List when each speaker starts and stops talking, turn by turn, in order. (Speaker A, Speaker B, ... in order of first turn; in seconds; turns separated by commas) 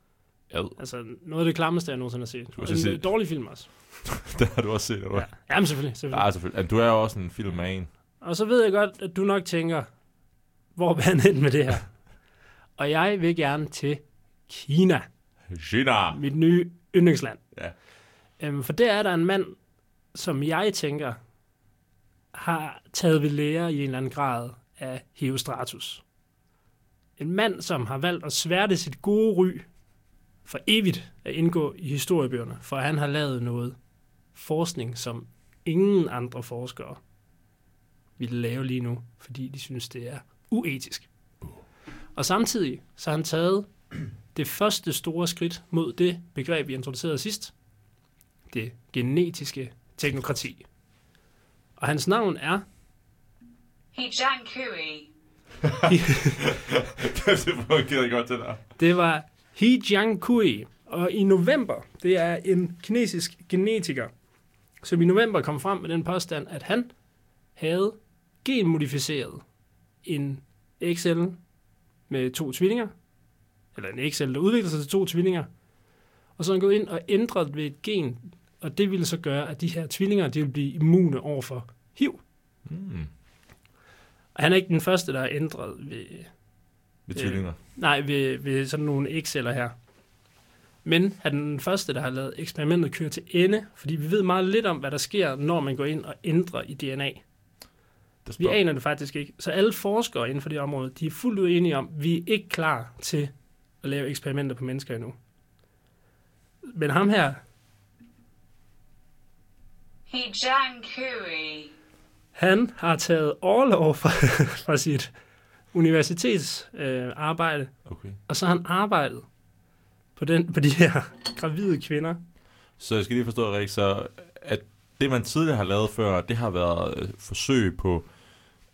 Speaker A: 0.5-0.8, Speaker B: 0.8-4.0, Speaker A: 2.6-3.1, Speaker A: 4.1-5.5, Speaker B: 5.1-6.2, Speaker A: 6.1-7.9, Speaker B: 8.2-9.9, Speaker B: 10.8-11.9, Speaker B: 12.8-15.1, Speaker A: 15.5-16.2, Speaker B: 16.1-17.4, Speaker B: 18.4-19.6, Speaker B: 20.1-21.2, Speaker B: 22.3-26.0, Speaker B: 27.2-29.7, Speaker B: 30.4-33.8, Speaker B: 34.3-37.0, Speaker B: 38.2-41.1, Speaker B: 42.1-43.7, Speaker B: 44.3-47.5, Speaker B: 48.5-50.7, Speaker B: 51.8-52.6, Speaker C: 53.9-55.1, Speaker A: 55.7-58.6, Speaker B: 55.9-56.4, Speaker B: 58.8-64.1, Speaker B: 64.8-66.9, Speaker B: 67.6-69.4, Speaker B: 70.0-71.4, Speaker B: 72.1-72.9, Speaker B: 73.8-75.5, Speaker B: 76.4-82.2, Speaker A: 82.7-83.1, Speaker B: 84.3-86.3, Speaker A: 87.1-87.6, Speaker B: 87.2-89.7, Speaker B: 90.8-97.2, Speaker A: 98.2-98.6, Speaker B: 98.4-103.3, Speaker B: 103.8-105.2, Speaker B: 106.7-107.4, Speaker C: 110.1-111.7, Speaker B: 112.4-115.1, Speaker B: 115.7-119.3, Speaker A: 117.9-118.2, Speaker B: 120.2-122.2, Speaker A: 122.8-128.1